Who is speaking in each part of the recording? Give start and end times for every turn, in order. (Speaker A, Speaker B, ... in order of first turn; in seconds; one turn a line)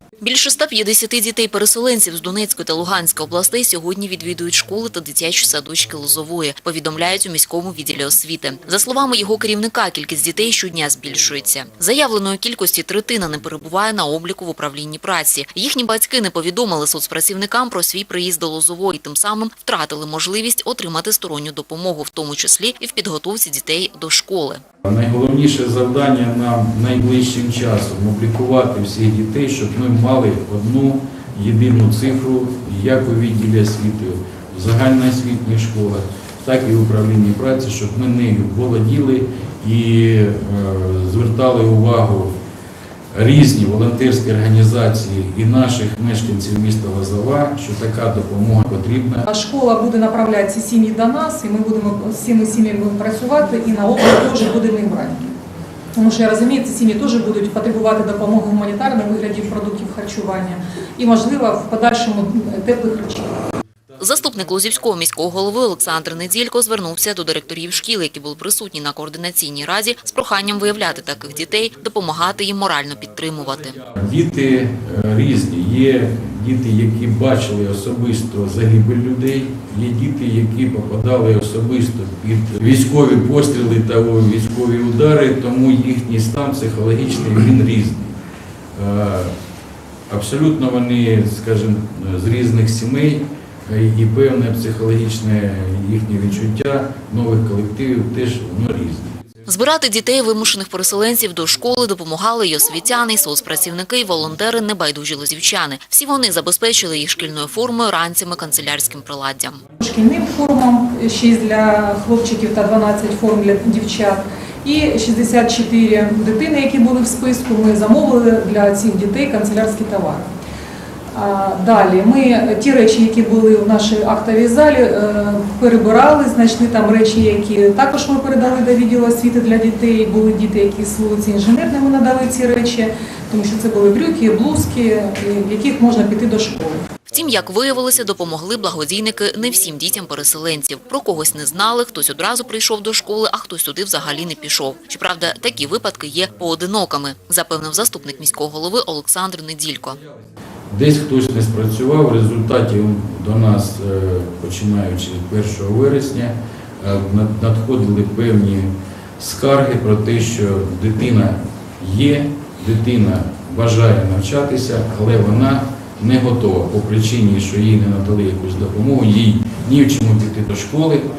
Speaker A: 0.2-24.6
Speaker B: 24.8-42.3
Speaker B: 43.1-49.2
Speaker C: 49.3-55.3
Speaker C: 56.0-63.4
Speaker A: 64.0-73.8
Speaker B: 73.9-88.2
Speaker B: 88.7-89.3
Speaker B: 90.1-99.2
Speaker A: 99.5-109.6
Speaker C: 109.8-120.3
Speaker C: 121.1-136.8
Speaker A: 137.1-150.0
Speaker B: 150.7-171.1